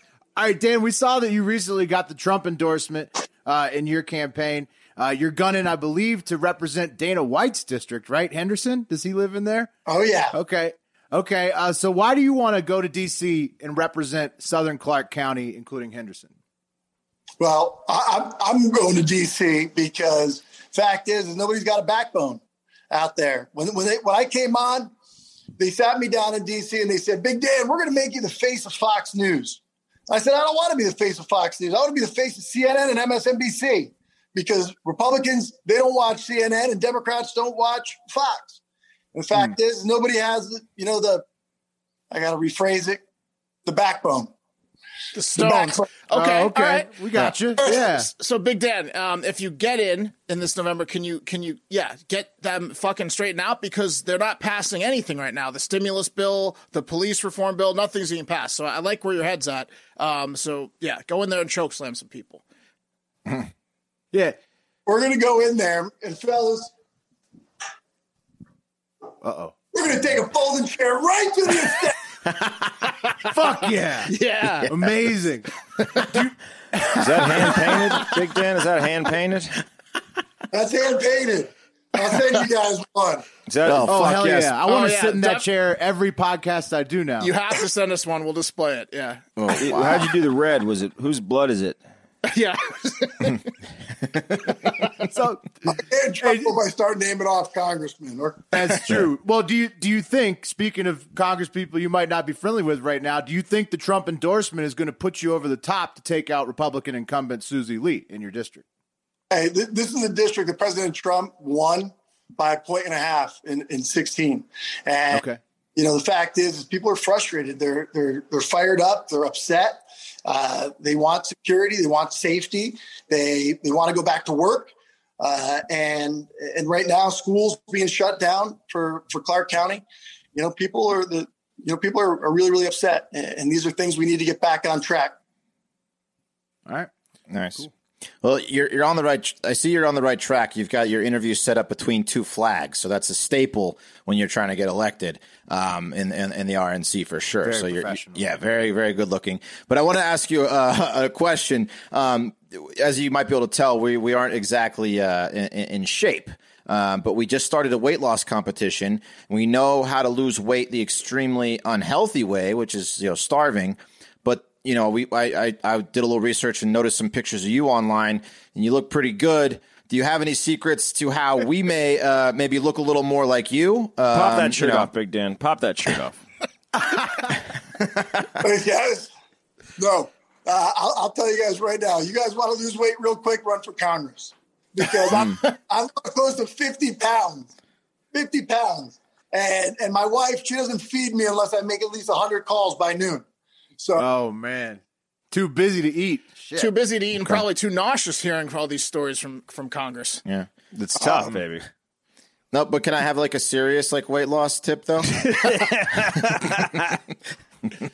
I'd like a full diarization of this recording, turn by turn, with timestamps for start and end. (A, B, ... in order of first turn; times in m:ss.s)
0:00.4-0:09.7 A
0:09.9-0:10.4 B
0:10.3-0:16.3 A
0:17.4-0:24.9 B
0:25.6-0:38.6 B
0:39.1-0:41.2 B
0:42.1-0:43.0 B
0:43.6-0:44.3 B
0:45.1-0:46.9 C
0:45.4-0:46.0 B
0:46.1-0:48.1 A
0:47.7-1:02.4 C
1:04.1-1:04.4 A
1:04.9-1:06.7 B
1:09.2-1:09.6 A
1:09.7-1:12.0 B
1:13.2-1:14.2 A
1:14.1-1:14.7 C
1:14.7-1:18.2 A
1:17.0-1:19.6 D
1:20.5-1:23.3 B
1:23.5-1:24.3 D
1:23.6-1:24.5 E
1:23.9-1:27.3 A
1:24.7-1:25.5 C
1:27.2-1:29.2 C
1:29.4-1:30.1 E
1:29.6-1:31.8 D
1:32.3-1:33.5 C
1:35.1-1:35.5 A
1:35.6-1:38.5 B
1:36.2-1:36.6 A
1:38.5-1:48.6 A
1:49.3-2:15.2 B
1:55.1-1:55.4 A
2:17.3-2:17.7 E
2:18.2-2:54.9 E
2:27.4-2:28.2 A
2:54.1-2:56.2 D
2:58.4-2:59.1 B
2:59.8-3:07.5 B
3:05.1-3:05.4 E
3:08.1-3:13.2 B
3:13.8-3:14.1 B
3:14.0-3:16.7 A
3:16.6-3:20.2 C
3:20.7-3:21.7 D
3:21.0-3:21.3 B
3:22.5-3:25.5 E
3:25.2-3:26.9 D